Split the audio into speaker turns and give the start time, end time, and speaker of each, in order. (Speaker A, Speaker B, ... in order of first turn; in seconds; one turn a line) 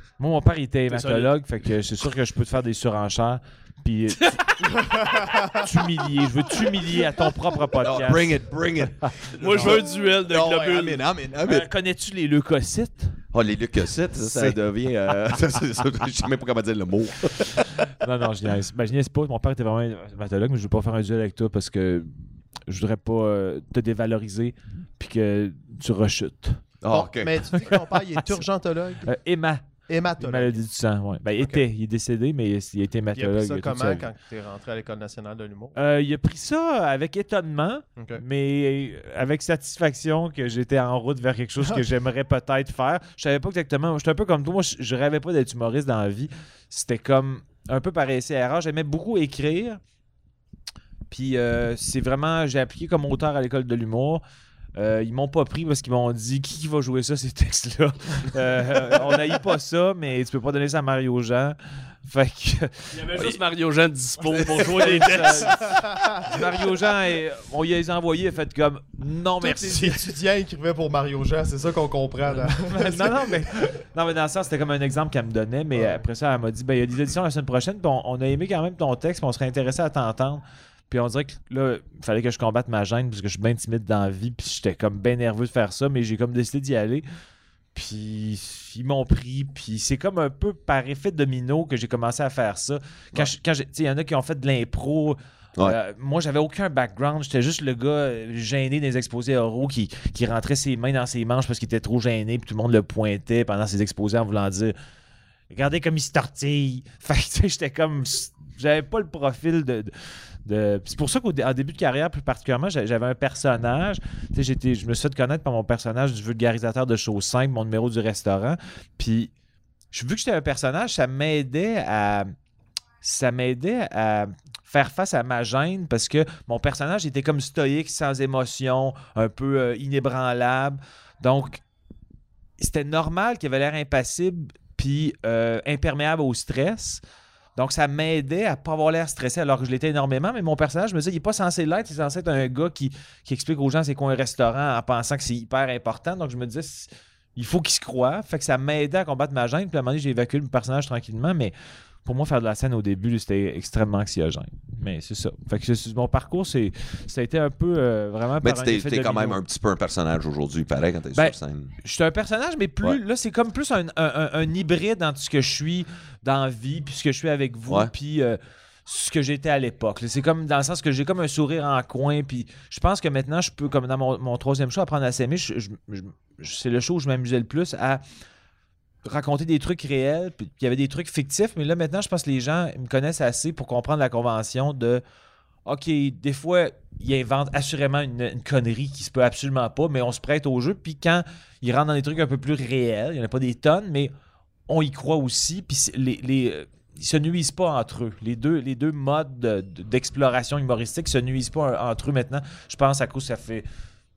Speaker A: 0.2-4.9
Speaker B: 0.9-1.3
Speaker B: 4.2-4.5
Speaker C: 4.7-5.7
Speaker A: 5.4-8.4
Speaker D: 7.8-11.7
Speaker A: 9.0-9.8
Speaker B: 9.4-11.0
Speaker A: 11.4-13.2
Speaker D: 13.3-17.9
Speaker A: 14.3-14.6
Speaker A: 18.0-22.1
Speaker A: 22.7-26.6
Speaker D: 26.8-27.4
Speaker C: 26.9-29.1
Speaker A: 27.7-28.4
Speaker A: 29.1-29.7
Speaker C: 29.9-30.6
Speaker A: 30.2-34.1
Speaker C: 33.1-35.8
Speaker A: 35.8-49.8
Speaker C: 38.0-38.2
Speaker A: 51.1-54.2
Speaker A: 54.8-63.0
Speaker B: 62.9-65.7
Speaker D: 64.2-65.3
Speaker A: 64.6-70.1
Speaker C: 65.6-66.2
Speaker D: 66.2-66.4
Speaker C: 69.4-73.5
Speaker A: 72.4-87.0
Speaker C: 75.8-76.0
Speaker A: 87.7-104.8
Speaker A: 105.5-109.9
Speaker A: 110.5-119.3
Speaker A: 119.9-122.3
Speaker A: 123.0-131.6
Speaker A: 132.6-137.0
Speaker A: 137.6-151.5
Speaker A: 152.1-159.4
Speaker D: 158.4-161.7
Speaker A: 161.1-178.0
Speaker A: 179.0-185.0
Speaker A: 185.7-194.1
Speaker A: 194.7-203.7